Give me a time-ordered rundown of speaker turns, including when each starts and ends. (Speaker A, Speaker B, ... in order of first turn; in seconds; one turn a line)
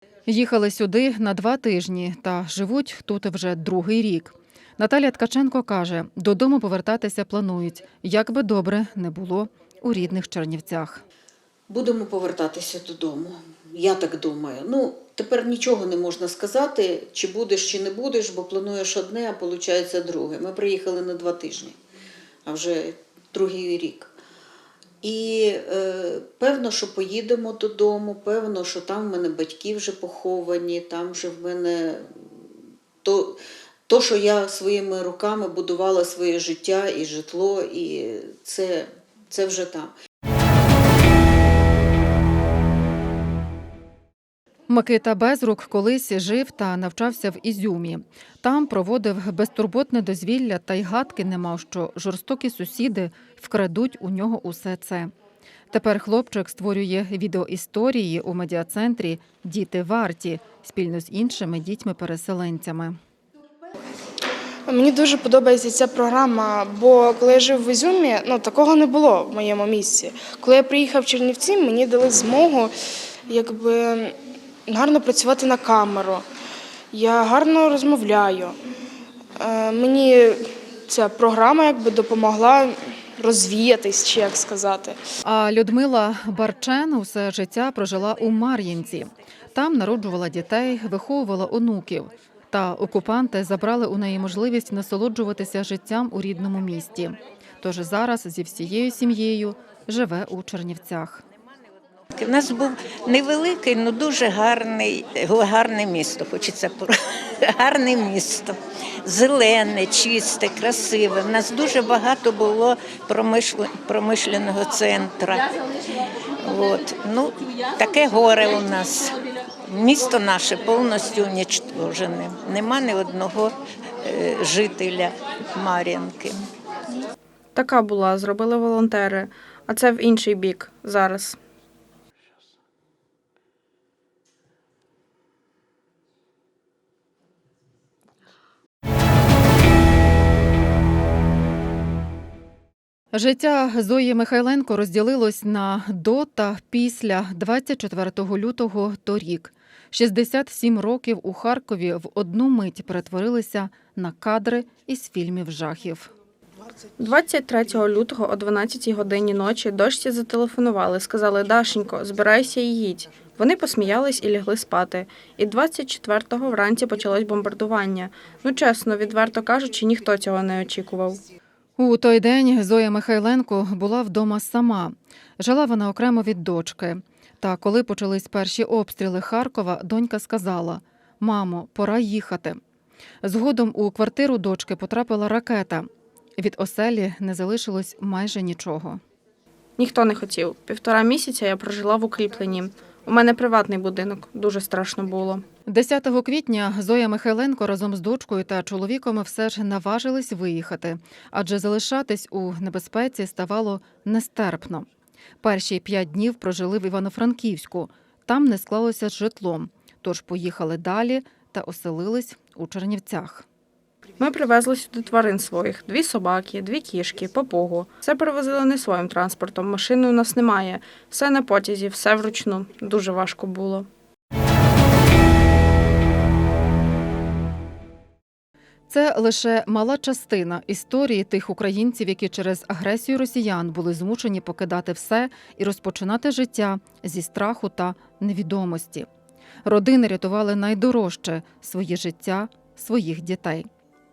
Speaker A: 0.3-11.0
Speaker B: 11.7-21.8
Speaker B: 22.4-24.1
Speaker B: 25.0-32.5
Speaker B: 33.0-39.9
Speaker A: 44.7-55.1
Speaker A: 55.7-63.0
Speaker C: 64.7-72.7
Speaker C: 73.3-74.2
Speaker C: 74.7-76.2
Speaker C: 76.9-78.6
Speaker C: 79.4-85.0
Speaker A: 85.2-101.2
Speaker D: 102.2-106.9
Speaker D: 107.5-115.5
Speaker D: 116.5-126.5
Speaker E: 127.5-131.4
Speaker A: 143.1-156.1
Speaker E: 157.0-171.2
Speaker A: 171.8-182.6
Speaker A: 183.2-189.0
Speaker E: 189.8-195.4
Speaker A: 195.7-204.9
Speaker A: 205.4-213.4
Speaker E: 214.2-223.9
Speaker A: 228.9-239.1
Speaker A: 239.6-243.7